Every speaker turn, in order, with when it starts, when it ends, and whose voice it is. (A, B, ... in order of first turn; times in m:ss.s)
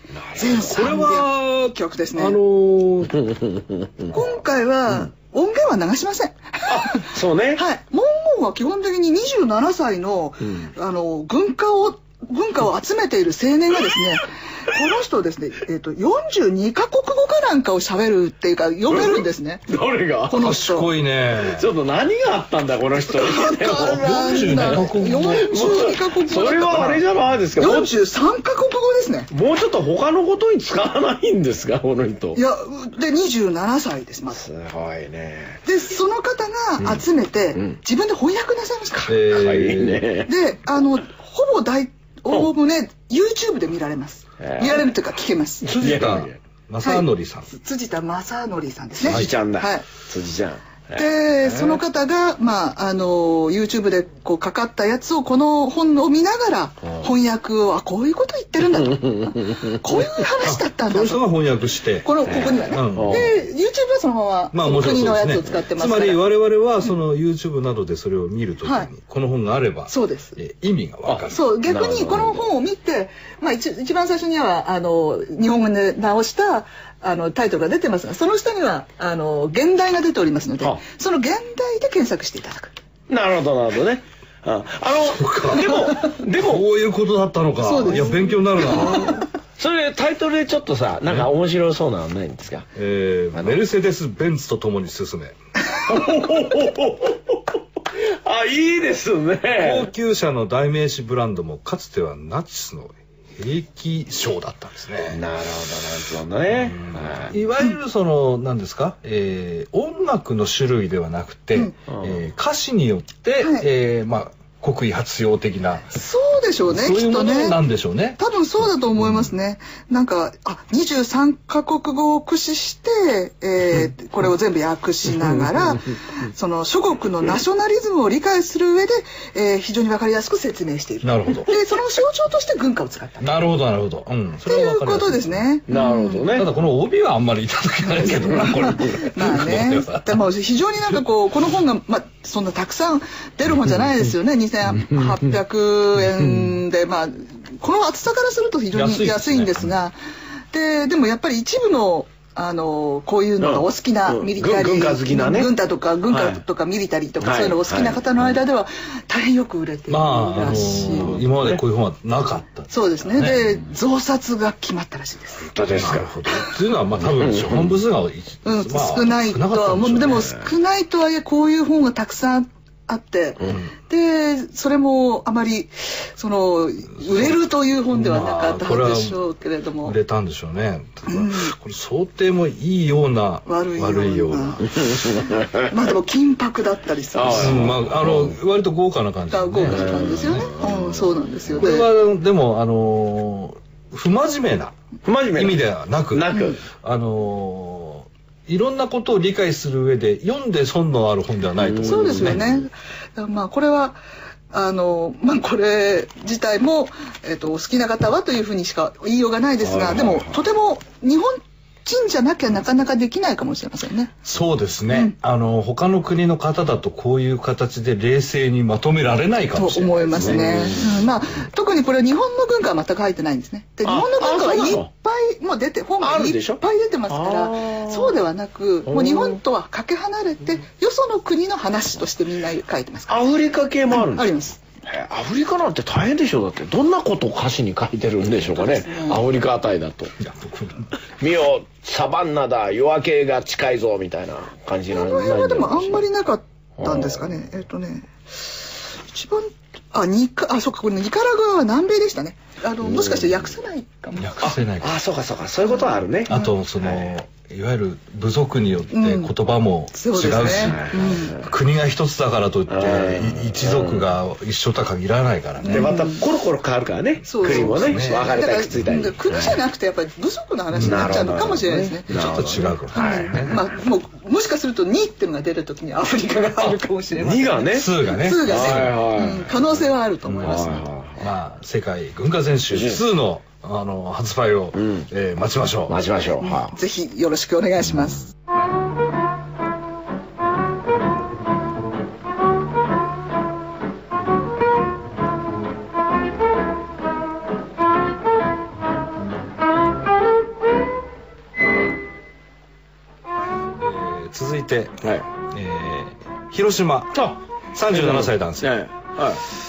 0:00.1-0:00.9 A
0:00.4-0:02.4 B
0:00.7-0:03.3 C
0:03.1-0:04.2 A
0:04.1-0:19.7 B
0:06.7-0:07.6 A
0:10.4-0:10.7 A
0:18.9-0:20.5 A
0:20.3-0:20.9 B
0:20.4-0:21.7 C
0:21.4-0:27.9 A
0:23.1-0:27.0 B
0:23.8-0:25.8 C
0:27.6-0:29.3 B
0:29.3-0:32.4 A
0:32.4-0:34.4 B
0:34.3-0:35.6 A
0:35.7-0:39.2 B
0:39.1-0:40.1 C
0:39.2-0:40.3 A
0:40.3-0:45.6 B
0:44.4-0:44.9 A
0:45.6-0:46.4 A
0:45.7-0:47.5 C
0:46.8-0:49.9 B
0:49.0-0:51.8 A
0:49.1-0:49.3 C
0:51.0-1:01.3 B
0:58.7-0:59.9 A
1:00.4-1:03.4 C
1:02.0-1:06.2 B
1:02.3-1:03.3 A
1:04.5-1:11.5 C
1:09.9-1:10.4 B
1:11.1-1:12.5 A
1:11.3-1:22.7 B
1:23.1-1:26.7 A
1:25.0-1:29.2 C
1:27.6-1:29.2 B
1:28.7-1:32.7 A
1:32.8-1:35.4 C
1:33.3-1:33.6 A
1:35.8-1:39.9 A
1:39.6-1:45.2 C
1:45.1-1:47.4 A
1:46.6-1:55.9 C
1:51.9-1:52.2 A
1:53.4-1:53.7 B
1:55.9-1:57.6 B
1:56.7-1:59.3 C
1:58.2-2:13.3 B
2:11.0-2:11.6 C
2:13.2-2:15.5 C
2:14.5-2:16.3 B
2:15.7-2:16.5 A
2:16.3-2:20.2 C
2:17.9-2:30.0 B
2:26.2-2:26.5 A
2:28.7-2:29.7 C
2:30.5-2:41.2 B
2:33.4-2:35.5 A
2:36.1-2:36.4 A
2:37.2-2:38.3 A
2:39.9-2:43.5 C
2:40.9-2:41.6 A
2:42.7-2:45.5 B
2:45.4-2:46.1 A
2:45.7-2:50.3 C
2:47.0-2:47.8 A
2:48.4-3:00.0 B
2:57.0-2:57.4 C
2:57.9-2:59.2 C
2:59.8-3:04.7 C
3:01.1-3:01.5 B
3:03.5-3:05.2 B
3:04.7-3:05.7 A
3:05.7-3:07.8 B
3:07.1-3:08.4 A
3:07.3-3:10.5 C
3:09.3-3:11.9 B
3:09.7-3:11.1 A
3:11.5-3:14.7 C
3:15.1-3:16.6 A
3:15.3-3:22.5 C
3:21.6-3:22.6 A
3:21.8-3:24.0 B
3:24.5-3:34.2 B
3:29.6-3:30.4 A
3:34.2-3:40.7 C
3:39.6-3:53.2 B
3:40.2-3:41.0 A
3:43.8-3:44.9 A
3:46.0-3:48.2 A
3:48.9-3:49.4 A
3:53.1-3:54.3 A
3:53.9-3:54.6 B
3:54.8-4:00.2 A
3:58.6-3:59.2 B
4:00.2-4:00.9 C
4:01.2-4:06.1 A
4:04.9-4:14.5 B
4:06.8-4:07.2 A
4:12.8-4:13.5 A
4:14.2-4:15.0 C
4:14.4-4:17.1 A
4:16.3-4:26.0 C
4:18.9-4:19.3 B
4:19.9-4:21.4 B
4:20.3-4:21.5 A
4:22.7-4:24.1 A
4:25.6-4:26.2 B
4:25.7-4:29.6 A
4:27.3-4:32.1 B
4:27.4-4:28.4 C
4:30.7-4:31.2 C
4:30.8-4:33.4 A
4:32.1-4:33.6 C
4:32.9-4:40.9 B
4:36.6-4:39.5 A
4:37.7-4:39.0 C
4:40.4-4:41.3 A
4:41.2-4:46.0 C
4:42.7-4:43.0 A
4:44.7-4:45.1 A
4:45.9-4:46.8 A
4:46.4-4:48.3 B
5:03.8-5:08.8 C
5:05.0-5:05.3 A
5:07.1-5:09.4 A